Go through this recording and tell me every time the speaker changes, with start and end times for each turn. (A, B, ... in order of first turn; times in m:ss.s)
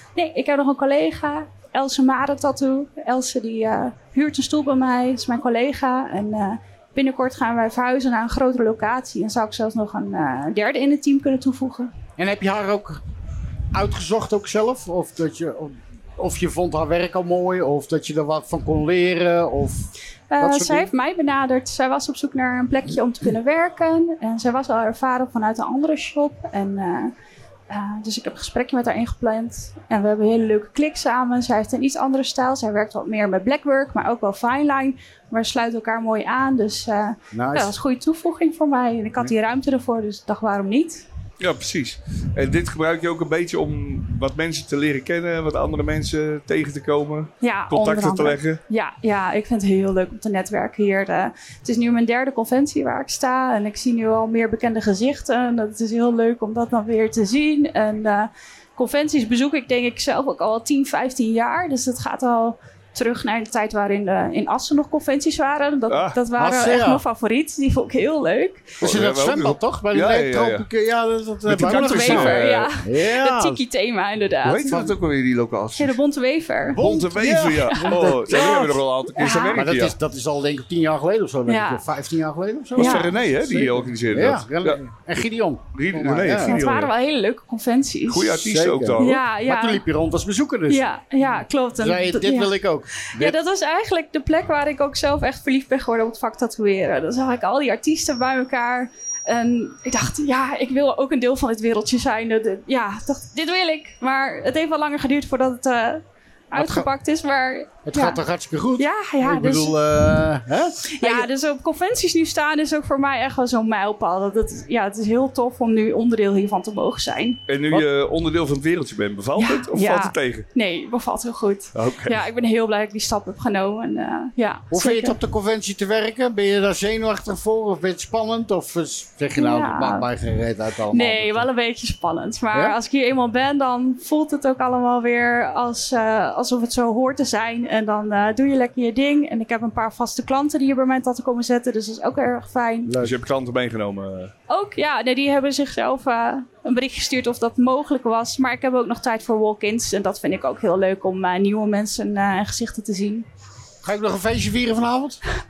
0:00.1-0:11.9 A
0:12.2-0:13.0 B
0:13.7-0:20.9 B
0:20.3-0:27.1 A
0:27.7-0:41.0 A
0:37.3-0:37.7 B
0:41.4-0:48.6 C
0:47.4-1:08.8 A
1:05.9-1:06.2 C
1:06.3-1:07.0 B
1:08.8-1:10.6 C
1:08.8-1:13.6 B
1:11.4-1:12.7 C
1:11.6-1:14.8 A
1:14.4-1:16.0 C
1:14.7-1:15.0 B
1:15.8-1:16.8 A
1:16.7-1:18.8 B
1:16.7-1:19.9 C
1:17.7-1:19.6 A
1:19.5-1:26.6 B
1:21.5-1:21.8 A
1:22.7-1:24.8 C
1:22.8-1:23.1 A
1:25.7-1:26.9 C
1:26.4-1:28.4 A
1:28.1-1:29.2 C
1:28.3-1:30.8 B
1:29.0-1:29.8 A
1:30.7-1:48.2 A
1:31.8-1:33.4 B
1:46.5-1:46.9 B
1:47.8-1:51.3 B
1:48.8-1:49.8 A
1:50.9-1:57.4 A
1:57.5-2:00.4 C
1:59.4-2:05.2 A
2:01.7-2:02.2 C
2:04.7-2:11.5 B
2:09.3-2:10.1 A
2:10.9-2:22.9 A
2:22.8-2:23.1 B
2:23.0-2:24.3 C
2:24.5-2:33.2 A
2:33.8-2:35.2 B